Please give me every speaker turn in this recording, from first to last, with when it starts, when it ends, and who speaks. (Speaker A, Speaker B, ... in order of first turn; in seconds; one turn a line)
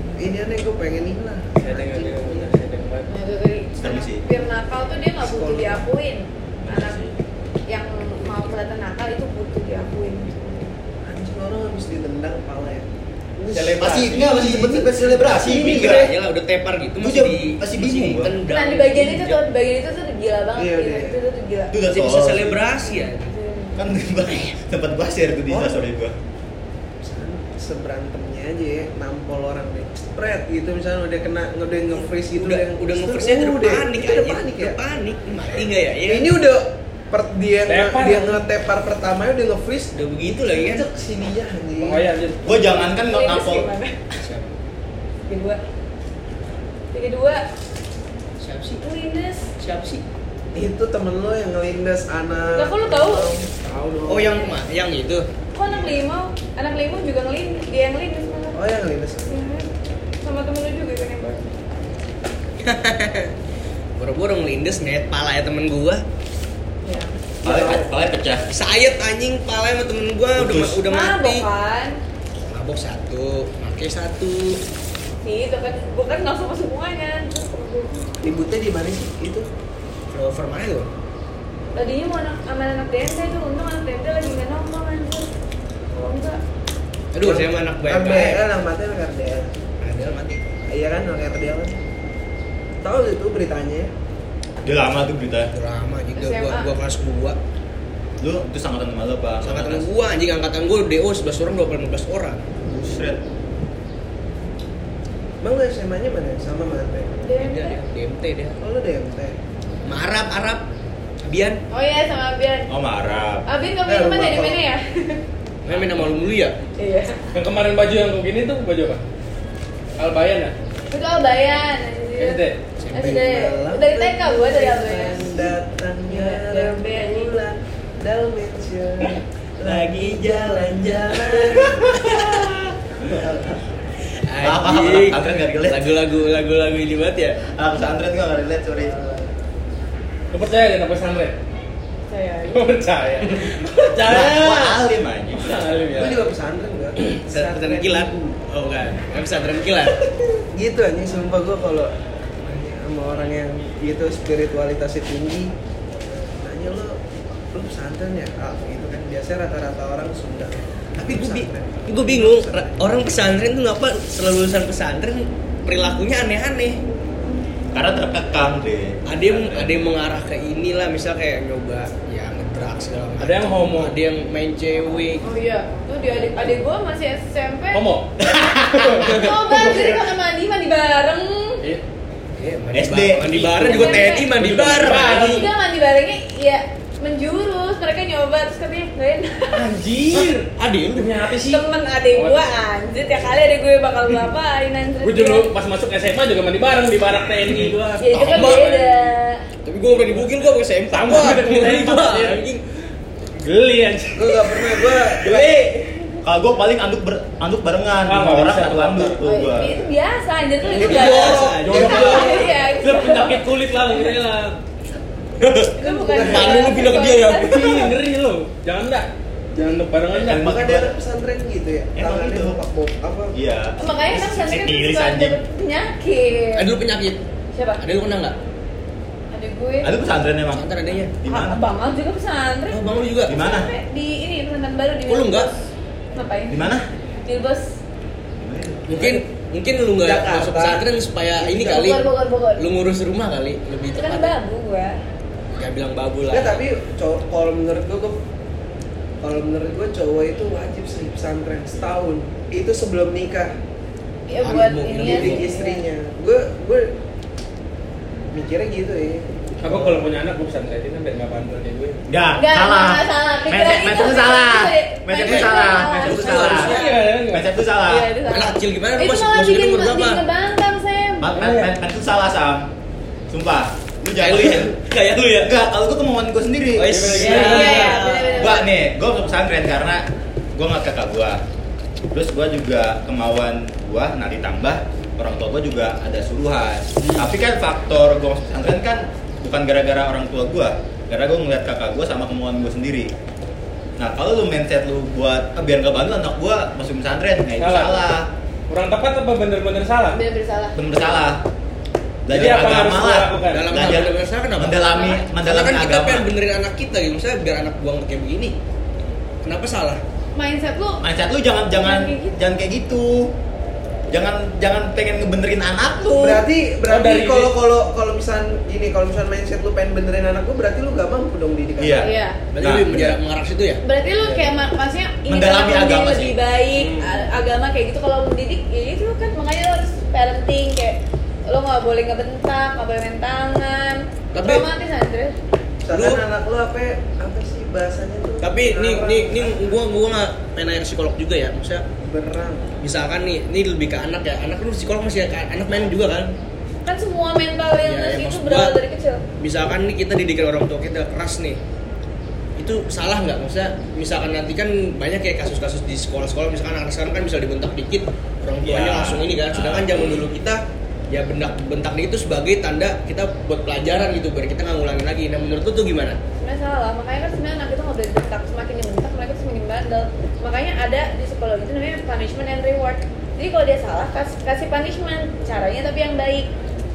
Speaker A: 0.2-2.6
Speaker B: 1.6-3.1
Speaker C: 3.1-7.0
Speaker D: 3.8-4.2
Speaker A: 5.2-5.8
Speaker D: 6.6-7.2
Speaker C: 7.7-10.7
Speaker A: 11.1-16.0
Speaker B: 13.5-14.4
Speaker D: 13.8-16.1
Speaker E: 15.3-19.5
Speaker D: 17.0-18.3
Speaker C: 18.5-21.7
Speaker A: 20.6-21.2
Speaker D: 21.7-22.6
Speaker E: 21.9-23.3
Speaker C: 22.8-23.8
Speaker D: 23.8-26.1
Speaker A: 25.5-25.9
Speaker A: 27.0-34.8
Speaker E: 31.9-36.4
Speaker A: 36.1-39.9
Speaker B: 37.7-38.4
Speaker E: 40.0-40.9
Speaker A: 40.5-42.1
Speaker B: 41.8-42.5
Speaker D: 42.5-43.7
Speaker C: 42.9-44.1
Speaker E: 44.2-44.5
Speaker C: 45.3-45.6
Speaker C: 46.9-47.5
Speaker E: 48.4-48.8
Speaker C: 48.8-49.5
Speaker E: 49.6-50.0
Speaker A: 50.5-54.5
Speaker C: 52.5-53.3
Speaker E: 54.1-55.3
Speaker C: 55.5-58.6
Speaker A: 55.7-56.0
Speaker A: 58.5-59.4
Speaker C: 59.3-59.7
Speaker C: 60.2-61.5
Speaker E: 62.6-63.3
Speaker E: 64.0-66.0
Speaker C: 66.8-67.1
Speaker A: 67.4-67.9
Speaker D: 67.4-68.5
Speaker E: 68.5-71.4
Speaker D: 70.4-70.8
Speaker C: 70.9-72.0
Speaker E: 72.5-74.6
Speaker C: 75.2-78.1
Speaker A: 78.2-79.5
Speaker E: 80.1-80.9
Speaker C: 81.8-85.3
Speaker C: 85.9-86.4
Speaker E: 87.1-88.4
Speaker A: 87.2-89.5
Speaker E: 89.8-90.4
Speaker A: 90.7-91.8
Speaker A: 92.8-93.9
Speaker D: 94.7-95.5
Speaker E: 95.5-97.4
Speaker C: 96.2-96.7
Speaker D: 98.2-99.9
Speaker E: 99.4-102.4
Speaker D: 102.6-103.2
Speaker A: 105.4-107.2
Speaker C: 107.2-107.8
Speaker E: 107.4-108.6
Speaker A: 108.6-109.4
Speaker E: 109.8-110.6
Speaker E: 111.2-111.6
Speaker C: 111.7-112.7
Speaker D: 112.7-113.5
Speaker C: 113.5-115.2
Speaker A: 113.8-114.6
Speaker E: 115.7-116.6
Speaker C: 116.8-117.2
Speaker B: 117.3-119.0
Speaker B: 120.0-120.5
Speaker C: 120.9-125.5
Speaker B: 122.2-122.6
Speaker E: 122.8-123.2
Speaker A: 122.9-132.4
Speaker C: 126.1-127.4
Speaker E: 129.6-132.5
Speaker A: 133.0-133.6
Speaker E: 134.3-137.4
Speaker D: 134.4-136.0
Speaker D: 137.5-138.9
Speaker A: 138.7-139.3
Speaker B: 140.3-141.3
Speaker C: 142.1-142.8
Speaker B: 142.5-146.3
Speaker D: 144.0-145.7
Speaker A: 145.9-148.2
Speaker E: 147.1-150.1
Speaker A: 150.5-155.5
Speaker A: 156.4-157.0
Speaker A: 157.5-163.2
Speaker E: 161.0-166.8
Speaker D: 167.7-169.9
Speaker E: 169.1-175.2
Speaker B: 173.2-174.0
Speaker C: 175.2-177.9
Speaker B: 177.7-178.1
Speaker D: 178.2-179.1
Speaker B: 178.7-180.1
Speaker C: 179.0-181.6
Speaker E: 182.4-185.5
Speaker D: 182.7-183.7
Speaker B: 183.5-185.5
Speaker C: 183.7-189.7
Speaker B: 189.5-192.5
Speaker E: 190.1-191.2
Speaker C: 191.4-195.5
Speaker B: 195.0-199.1
Speaker C: 198.0-199.4
Speaker E: 198.1-198.7
Speaker E: 199.6-202.6
Speaker B: 199.9-200.3
Speaker B: 200.9-202.6
Speaker B: 203.4-205.7
Speaker A: 204.2-205.6
Speaker D: 206.2-209.8
Speaker B: 208.1-209.2
Speaker C: 209.2-213.6
Speaker E: 210.7-212.5
Speaker A: 210.8-212.5
Speaker B: 210.9-214.6
Speaker E: 215.4-217.9
Speaker C: 215.8-217.9
Speaker A: 215.8-216.9
Speaker B: 216.9-220.5
Speaker D: 220.1-220.9
Speaker A: 220.3-223.3
Speaker D: 222.0-222.6
Speaker D: 223.3-225.4
Speaker C: 223.8-226.7
Speaker E: 226.6-227.2
Speaker C: 227.6-227.8
Speaker E: 227.8-228.3
Speaker C: 229.3-229.9
Speaker D: 229.8-231.6
Speaker E: 230.5-231.1
Speaker C: 231.2-235.5
Speaker E: 232.7-233.4
Speaker D: 233.3-233.7
Speaker E: 235.1-235.5
Speaker C: 236.2-236.7
Speaker D: 236.5-236.9
Speaker C: 237.2-237.8
Speaker D: 238.4-238.9
Speaker E: 238.9-244.4
Speaker A: 239.0-239.2
Speaker A: 240.0-240.8
Speaker A: 241.4-241.9
Speaker C: 241.7-242.6
Speaker C: 243.9-245.0
Speaker E: 245.6-246.6
Speaker A: 246.3-248.2
Speaker A: 249.2-253.6
Speaker C: 254.3-255.8
Speaker E: 254.4-255.5
Speaker A: 254.9-256.9
Speaker A: 258.3-260.0
Speaker B: 259.6-262.0
Speaker D: 262.1-266.7
Speaker C: 262.4-266.9
Speaker E: 265.2-267.0
Speaker B: 266.4-267.5
Speaker D: 267.3-268.1
Speaker C: 267.9-271.3
Speaker E: 268.3-270.2
Speaker D: 271.2-272.7
Speaker B: 271.3-271.7
Speaker D: 273.3-274.8
Speaker E: 274.2-275.6
Speaker D: 275.4-277.5
Speaker E: 276.8-278.5
Speaker B: 276.9-278.1
Speaker C: 277.2-278.7
Speaker D: 278.4-280.0
Speaker D: 280.6-281.4
Speaker D: 282.1-293.1
Speaker E: 287.0-287.3
Speaker D: 294.0-298.3
Speaker B: 297.6-298.0
Speaker B: 298.7-300.2
Speaker C: 300.1-301.2
Speaker D: 300.8-301.4
Speaker D: 302.3-306.3
Speaker B: 302.3-303.7
Speaker E: 303.5-304.9
Speaker C: 304.8-305.2
Speaker E: 305.4-308.6
Speaker E: 309.4-310.0
Speaker C: 310.4-311.0
Speaker D: 311.0-313.3
Speaker C: 311.8-312.4
Speaker D: 314.1-316.4
Speaker C: 316.0-316.3
Speaker A: 316.1-322.1
Speaker B: 316.9-317.6
Speaker D: 321.8-323.2
Speaker C: 322.0-322.4
Speaker E: 322.5-323.8
Speaker C: 323.8-335.3
Speaker B: 324.2-324.5
Speaker D: 325.3-326.4
Speaker B: 326.7-327.3
Speaker E: 334.3-334.7
Speaker A: 335.8-339.7
Speaker E: 335.9-336.2
Speaker E: 338.4-341.9
Speaker A: 342.0-342.8
Speaker E: 342.8-346.3
Speaker C: 346.9-349.2
Speaker E: 347.9-348.8
Speaker E: 349.4-351.6
Speaker E: 352.6-366.2
Speaker D: 358.6-360.2
Speaker C: 366.4-376.5